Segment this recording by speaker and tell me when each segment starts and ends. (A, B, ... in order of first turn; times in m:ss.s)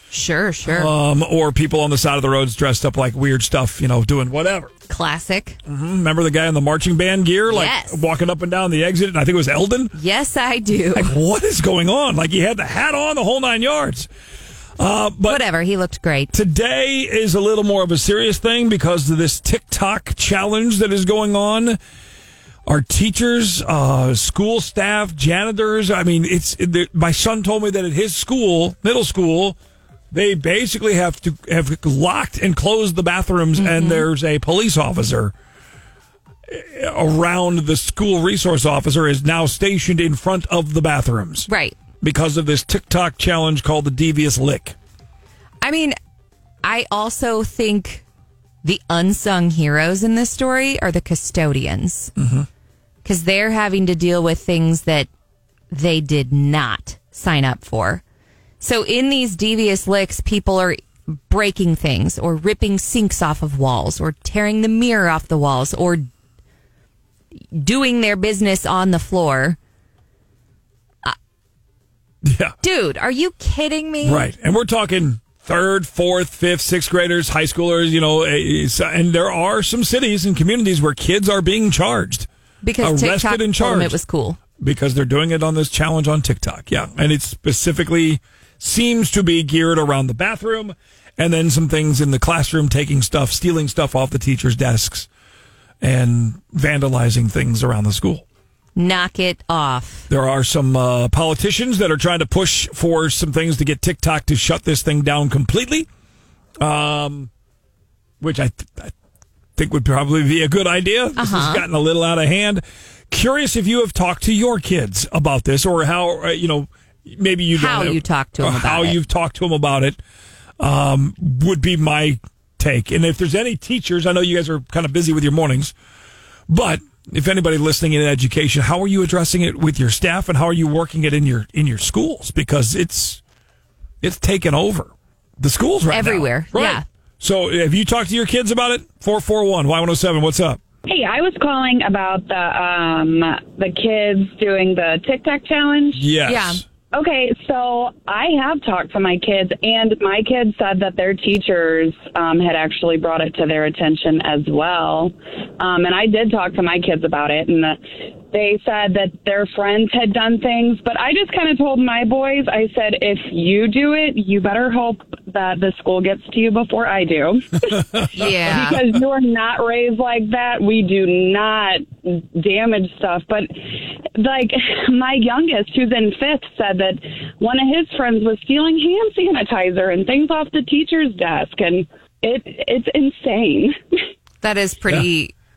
0:00.1-0:00.9 A
0:00.6-0:04.7 B
0:04.9-0:05.6 A
0:05.6-0:09.9 B
0:07.5-0:08.0 A
0:09.9-0:11.1 A
0:10.9-0:14.1 B
0:14.8-0:15.4 B
0:15.3-0:16.3 A
0:16.3-0:21.8 B
0:22.6-0:29.6 B
0:30.1-0:35.3 B
0:33.6-0:34.1 A
0:36.5-0:41.5 B
0:41.5-0:41.8 A
0:42.0-0:44.8 B
0:45.6-0:45.9 A
0:46.6-0:48.0 A
0:48.6-0:52.1 A
0:52.2-0:52.4 B
0:53.0-0:55.1 A
0:55.7-0:58.0 A
0:58.6-1:06.1 A
1:07.5-1:09.6 A
1:12.2-1:12.5 B
1:12.6-1:14.3 A
1:14.0-1:22.3 B
1:22.6-1:24.4 A
1:22.8-1:24.0 B
1:24.6-1:35.1 B
1:35.8-1:38.2 B
1:38.7-1:40.1 A
1:40.1-1:45.9 B
1:46.6-1:47.3 B
1:48.2-1:48.9 B
1:49.6-2:00.0 B
1:51.2-1:51.6 A
1:57.5-1:59.0 A
2:00.6-2:05.7 B
2:06.5-2:13.2 B
2:14.0-2:20.6 B
2:15.9-2:16.8 A
2:20.8-2:26.0 C
2:25.9-2:26.6 B
2:26.2-2:26.6 A
2:26.9-2:37.8 C
2:38.3-3:04.0 C
2:48.1-2:48.8 A
3:04.4-3:05.3 A